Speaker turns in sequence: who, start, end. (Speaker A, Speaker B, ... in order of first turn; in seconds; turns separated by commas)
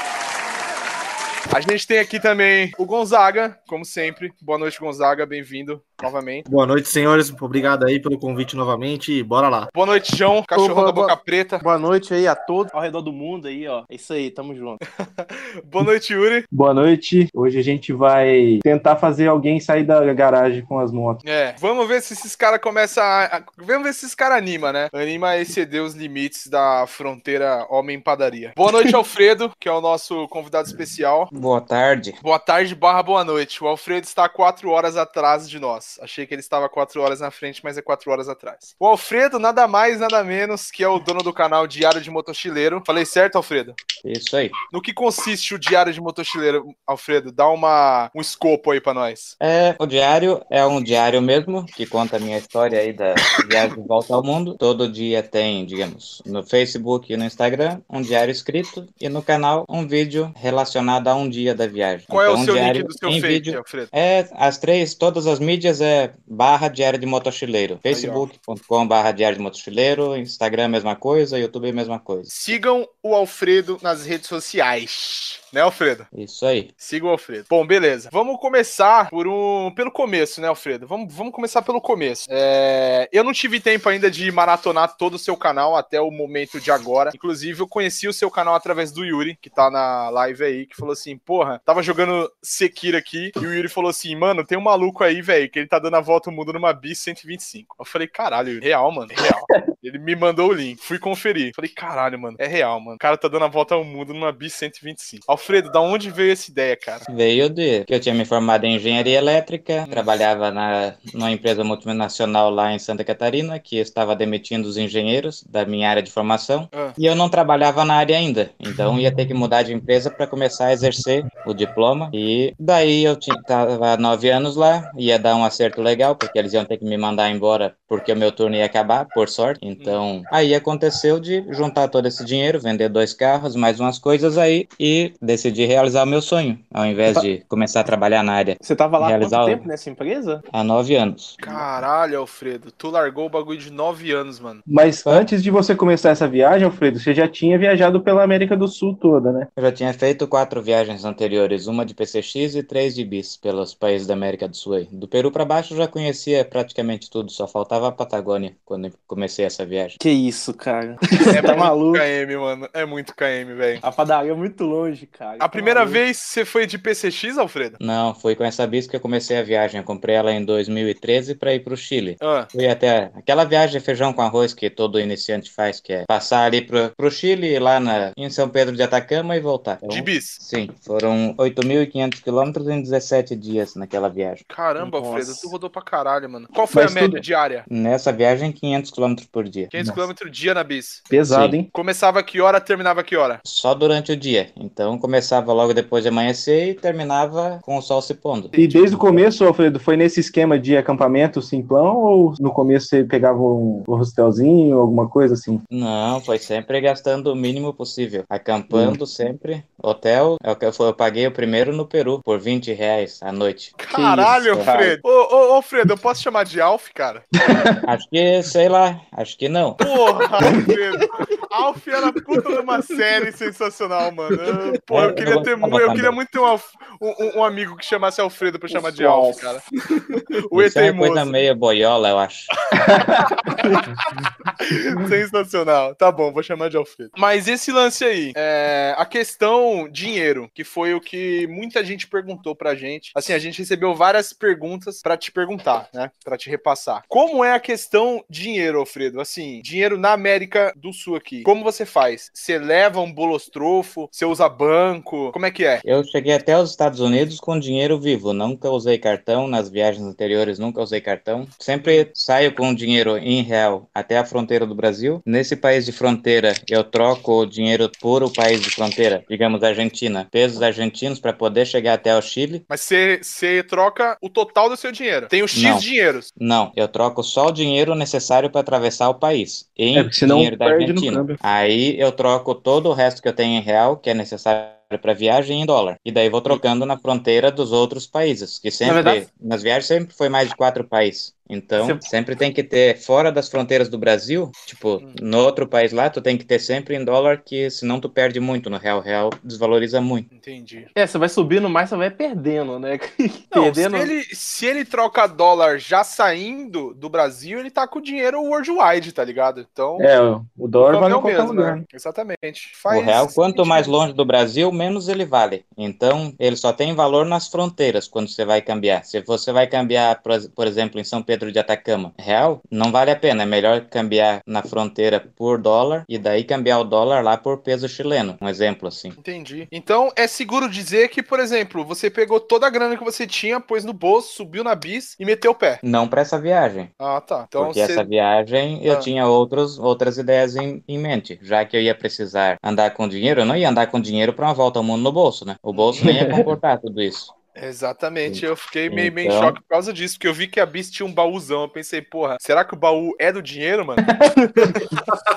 Speaker A: 1.5-6.5, Speaker B: 6.5-9.7, Speaker A: 9.7-11.6, Speaker C: 10.5-14.8, Speaker A: 14.8-16.5, Speaker D: 16.5-21.2, Speaker A: 21.2-31.3, Speaker E: 31.3-32.2, Speaker A: 32.2-43.8, Speaker E: 44.0-44.5, Speaker A: 44.7-49.3, Speaker E: 49.4-72.4, Speaker A: 62.1-63.9, Speaker A: 67.9-68.2, Speaker A: 72.3-76.1, Speaker E: 76.1-76.7, Speaker A: 76.8-107.1, Speaker E: 107.1-139.7, Speaker A: 109.8-110.1, Speaker C: 138.6-140.4, Speaker E: 140.5-141.4, Speaker A: 141.4-144.6, Speaker D: 144.7-149.5, Speaker E: 149.6-160.0, Speaker C: 160.0-162.1, Speaker A: 161.3-163.8, Speaker C: 163.8-166.0, Speaker A: 165.4-167.8, Speaker E: 167.8-184.4, Speaker A: 172.2-172.5, Speaker A: 179.9-180.4, Speaker A: 184.5-187.7, Speaker C: 184.8-185.5, Speaker D: 186.7-187.2, Speaker E: 187.7-189.7, Speaker A: 189.7-191.1, Speaker D: 189.8-190.1, Speaker D: 191.1-191.7, Speaker E: 191.3-191.6, Speaker A: 191.7-193.4, Speaker E: 193.4-199.1, Speaker A: 198.5-199.1, Speaker D: 198.6-205.6, Speaker E: 205.7-215.0, Speaker D: 208.7-209.0, Speaker A: 213.8-217.2, Speaker D: 217.4-217.7, Speaker E: 217.8-219.8, Speaker A: 219.8-229.6, Speaker D: 220.4-221.0, Speaker D: 222.1-222.6, Speaker E: 224.9-226.2, Speaker C: 228.8-229.4, Speaker A: 230.2-231.3, Speaker E: 230.5-232.5, Speaker D: 232.9-233.3, Speaker A: 233.4-233.8, Speaker A: 234.6-255.8, Speaker E: 255.8-272.6, Speaker A: 261.8-262.1, Speaker A: 272.7-276.3, Speaker E: 275.5-300.3, Speaker D: 279.9-281.4, Speaker D: 288.8-289.2, Speaker C: 291.8-292.1, Speaker A: 300.3-300.9, Speaker C: 300.9-304.1, Speaker A: 303.5-310.1, Speaker D: 310.0-311.8, Speaker A: 310.8-313.9, Speaker E: 312.9-329.2, Speaker A: 329.2-335.8, Speaker E: 335.8-336.9, Speaker A: 337.0-338.1, Speaker E: 337.6-347.3, Speaker A: 345.8-346.2, Speaker D: 346.0-346.5, Speaker A: 347.6-354.0, Speaker E: 348.2-349.6, Speaker D: 354.3-355.0